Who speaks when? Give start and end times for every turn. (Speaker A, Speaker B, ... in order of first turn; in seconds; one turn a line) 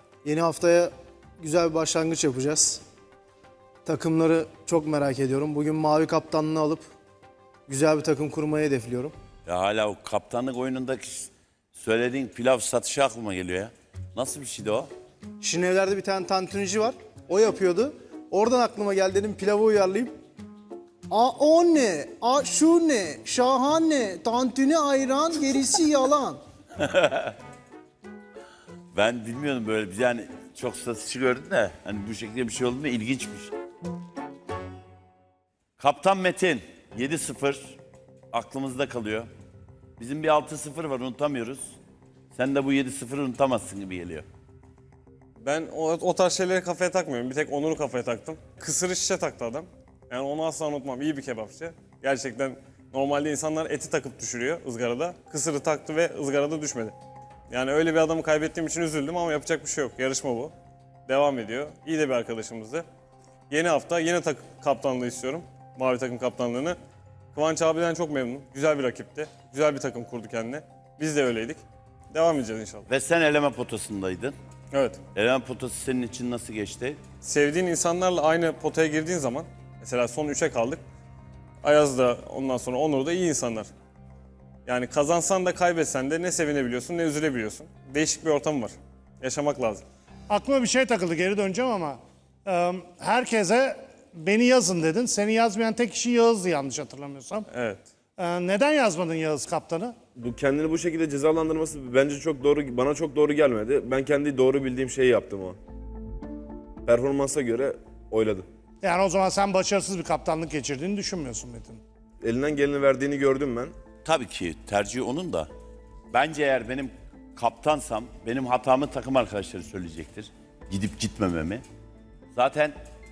Speaker A: 0.2-2.8
Speaker A: 3.8-6.9
Speaker A: 7.7-9.1
Speaker B: 9.4-14.9
Speaker A: 15.4-20.1
Speaker A: 21.1-26.4
Speaker B: 26.8-27.3
Speaker B: 28.9-33.5
Speaker B: 35.8-37.8
Speaker B: 38.3-39.3
Speaker B: 40.0-41.7
Speaker B: 42.3-44.2
Speaker C: 45.4-56.9
Speaker C: 57.5-60.5
Speaker C: 61.1-62.8
Speaker C: 63.5-66.8
Speaker C: 67.3-71.6
Speaker C: 72.1-72.8
Speaker B: 72.9-74.3
Speaker C: 74.7-75.0
Speaker B: 75.1-77.0
Speaker C: 77.2-80.8
Speaker C: 81.6-83.7
Speaker C: 84.7-89.8
Speaker D: 90.3-97.5
Speaker C: 97.5-97.8
Speaker D: 98.2-100.0
Speaker E: 100.2-105.6
Speaker E: 106.8-108.5
Speaker D: 108.8-111.8
Speaker E: 112.2-113.7
Speaker B: 114.0-115.5
Speaker B: 116.1-121.6
Speaker B: 122.3-122.7